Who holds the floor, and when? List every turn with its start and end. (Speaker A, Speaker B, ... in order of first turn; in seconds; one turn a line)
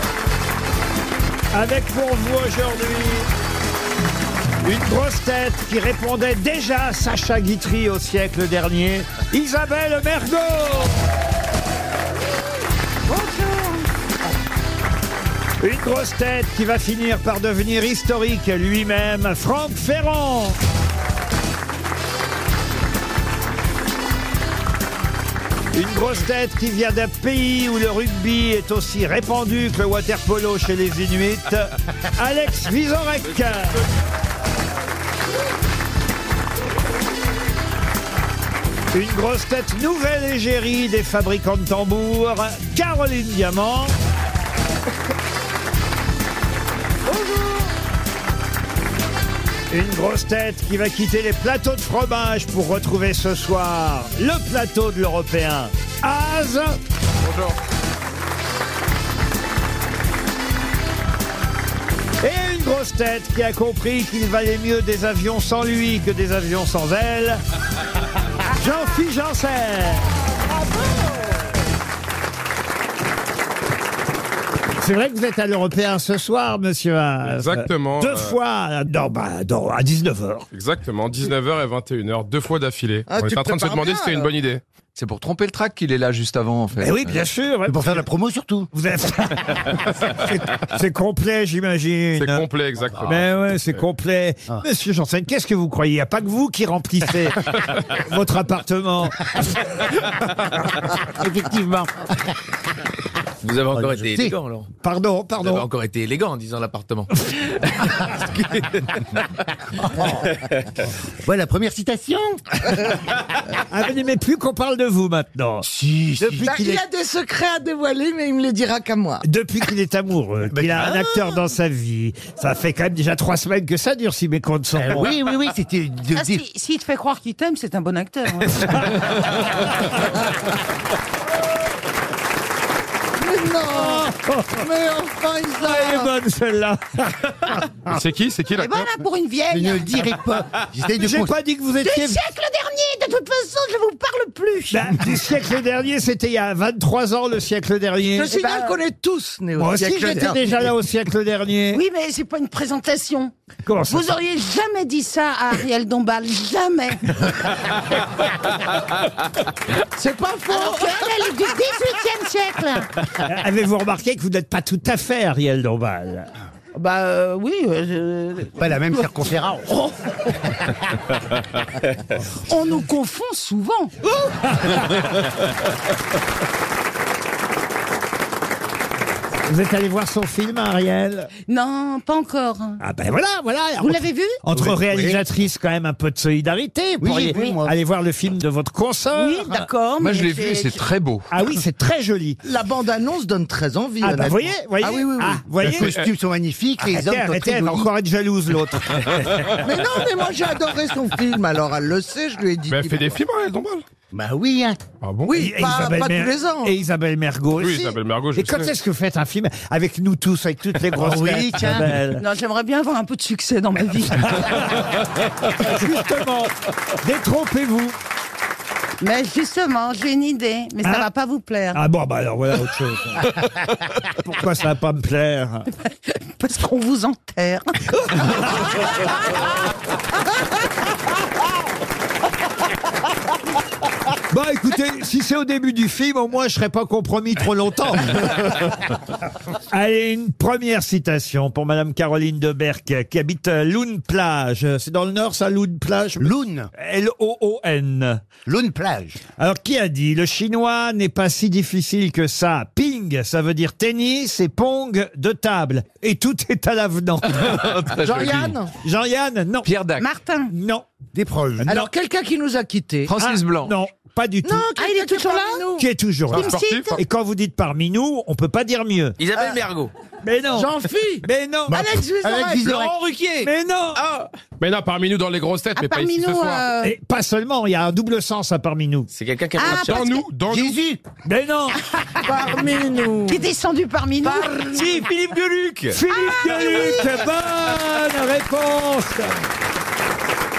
Speaker A: 1.5-3.3
Speaker A: 4.6-11.0
Speaker B: 13.1-13.8
Speaker A: 15.6-20.6
Speaker A: 25.7-33.8
Speaker A: 38.9-44.0
Speaker A: 49.7-56.8
Speaker C: 57.3-57.5
Speaker A: 62.2-67.4
Speaker A: 68.5-70.1
Speaker A: 74.8-80.5
Speaker C: 77.2-78.4
Speaker C: 80.5-84.6
Speaker D: 83.1-84.3
Speaker E: 85.0-87.2
Speaker A: 86.8-88.1
Speaker F: 87.7-88.7
Speaker A: 88.7-92.5
Speaker C: 92.2-93.3
Speaker A: 93.1-99.4
Speaker F: 101.0-102.1
Speaker G: 103.4-104.7
Speaker F: 103.7-104.4
Speaker A: 104.8-105.7
Speaker G: 105.4-107.1
Speaker F: 109.8-110.3
Speaker F: 111.2-112.6
Speaker A: 113.7-115.7
Speaker F: 115.6-116.6
Speaker A: 116.2-116.8
Speaker D: 116.3-119.2
Speaker A: 119.2-125.2
Speaker F: 120.5-121.0
Speaker F: 124.8-126.4
Speaker B: 126.1-128.9
Speaker D: 133.2-134.1
Speaker A: 133.6-134.7
Speaker D: 134.6-136.1
Speaker A: 135.6-137.2
Speaker C: 137.9-138.8
Speaker B: 138.6-139.9
Speaker F: 139.5-141.3
Speaker A: 141.0-142.2
Speaker B: 141.8-144.9
Speaker A: 144.7-148.3
Speaker D: 148.2-150.4
Speaker B: 148.3-148.8
Speaker A: 149.6-151.8
Speaker B: 151.7-153.3
Speaker A: 153.7-154.1
Speaker B: 153.9-157.1
Speaker D: 160.0-161.2
Speaker B: 160.5-162.9
Speaker A: 163.2-166.3
Speaker B: 166.7-168.6
Speaker F: 168.6-169.7
Speaker B: 172.5-173.9
Speaker A: 174.3-175.1
Speaker A: 179.5-181.3
Speaker B: 181.5-182.8
Speaker A: 182.8-189.7
Speaker B: 183.8-184.4
Speaker F: 184.6-185.2
Speaker F: 187.0-187.8
Speaker B: 189.1-190.8
Speaker E: 190.0-191.3
Speaker A: 191.3-192.4
Speaker D: 192.4-195.4
Speaker A: 194.0-196.0
Speaker C: 195.6-196.1
Speaker F: 195.7-197.9
Speaker A: 196.8-199.6
Speaker D: 199.6-203.2
Speaker C: 202.7-203.8
Speaker F: 204.1-204.8
Speaker C: 205.0-205.3
Speaker D: 205.3-206.7
Speaker A: 205.3-212.2
Speaker C: 207.6-208.7
Speaker F: 210.9-212.0
Speaker B: 212.2-214.7
Speaker A: 214.3-214.8
Speaker A: 215.6-218.0
Speaker B: 219.0-221.8
Speaker A: 220.8-221.1
Speaker A: 221.7-223.5
Speaker A: 224.0-225.7
Speaker B: 226.4-227.8
Speaker A: 234.3-238.4
Speaker A: 239.7-248.2
Speaker F: 246.2-246.7
Speaker F: 248.5-249.2
Speaker A: 249.4-257.6
Speaker E: 257.3-258.6
Speaker D: 257.9-258.7
Speaker A: 258.8-259.7
Speaker E: 259.6-260.1
Speaker B: 260.0-260.5
Speaker A: 260.5-260.9
Speaker F: 261.1-261.8
Speaker A: 261.6-261.9
Speaker D: 261.6-263.1
Speaker E: 263.1-263.8
Speaker A: 263.2-264.7
Speaker D: 264.4-265.9
Speaker B: 264.8-265.6
Speaker A: 265.8-269.2
Speaker C: 266.3-267.0
Speaker B: 266.3-267.0
Speaker G: 269.2-269.9
Speaker A: 270.2-271.9
Speaker D: 270.5-272.8
Speaker F: 271.7-272.9
Speaker A: 273.4-274.0
Speaker G: 273.9-274.3
Speaker C: 274.6-276.7
Speaker B: 275.8-276.9
Speaker A: 276.8-279.1
Speaker G: 279.1-280.0
Speaker B: 279.6-280.2
Speaker C: 279.6-280.8
Speaker F: 280.5-281.0
Speaker A: 281.2-281.8
Speaker D: 282.2-283.4
Speaker B: 283.3-284.6
Speaker D: 284.2-285.0
Speaker G: 284.7-286.0
Speaker A: 285.9-289.3
Speaker B: 286.1-287.1